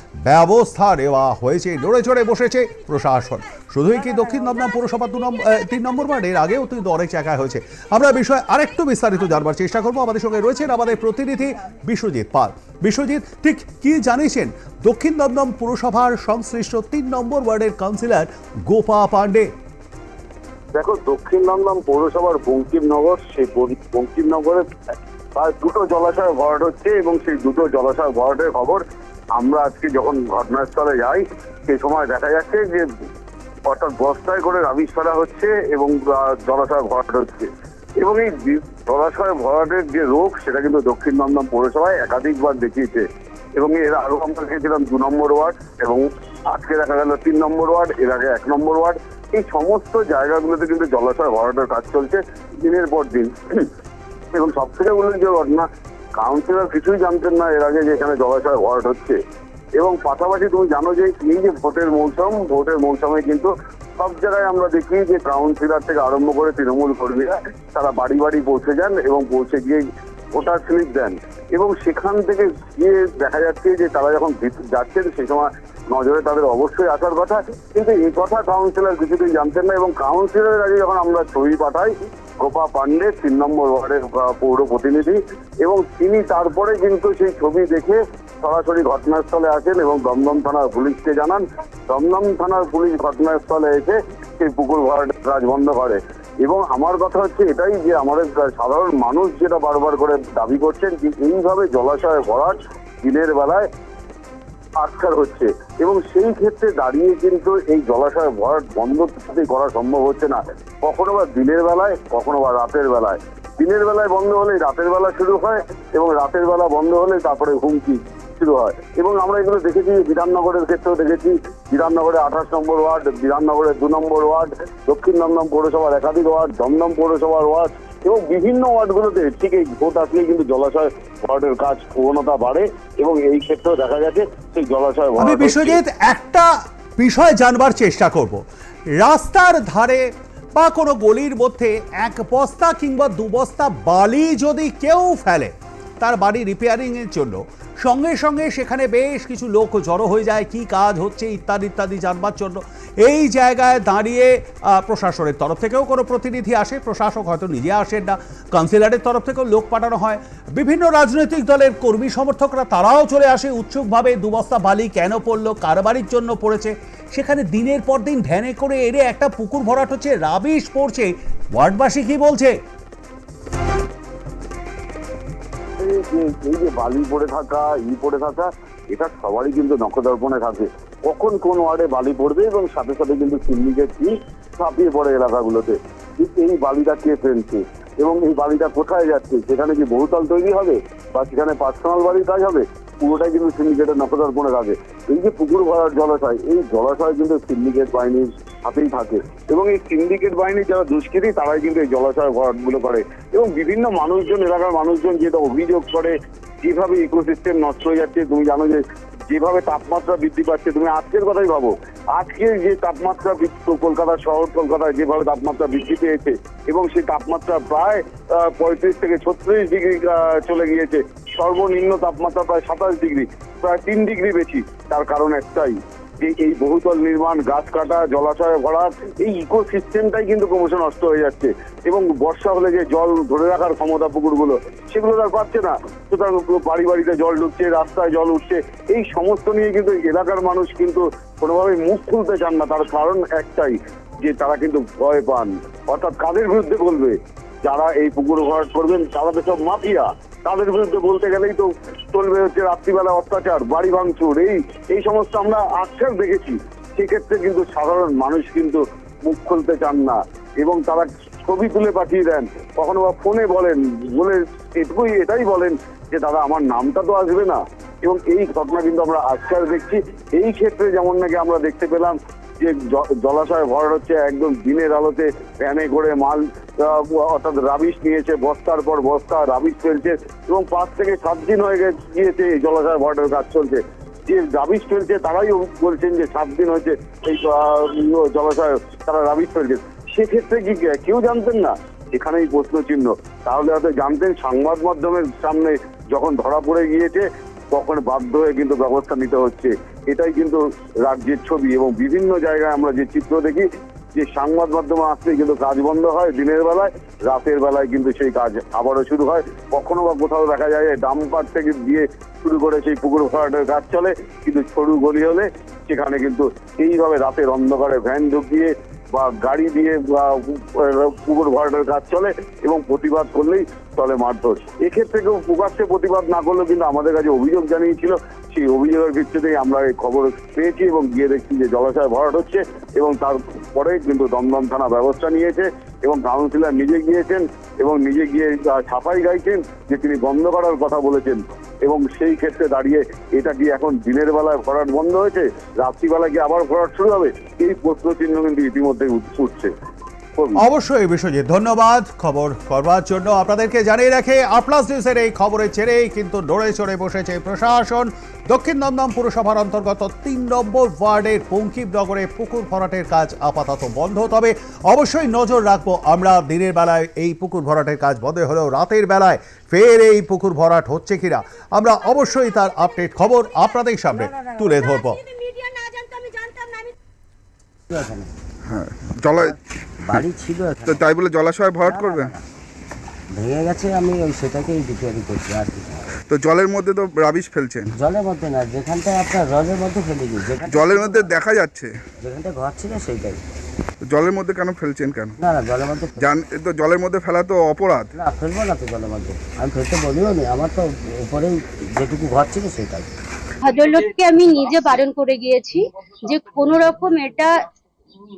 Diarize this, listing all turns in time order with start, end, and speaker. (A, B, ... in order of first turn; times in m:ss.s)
0:00.2-0:19.5 A
0:20.7-0:24.6 B
0:25.4-0:28.8 B
0:29.4-0:32.9 B
0:33.7-0:43.0 B
0:43.6-0:53.7 B
0:54.3-0:59.2 B
0:59.8-1:43.6 B
1:44.8-2:15.8 B
2:15.2-2:18.4 A
2:19.0-2:20.0 A
2:20.6-2:52.5 A
2:55.8-5:49.7 B
5:50.4-5:50.6 B
5:50.6-6:15.4 A
6:17.9-6:18.3 C
6:18.6-6:19.6 D
6:20.0-6:21.0 C
6:20.8-6:22.3 D
6:21.8-6:22.4 C
6:23.3-6:26.1 C
6:26.3-6:27.9 D
6:27.9-6:31.3 C
6:30.6-6:31.9 D
6:32.2-6:33.4 C
6:34.0-6:35.4 D
6:35.4-6:36.3 C
6:36.2-6:38.1 D
6:38.1-6:43.1 C
6:43.6-6:47.5 E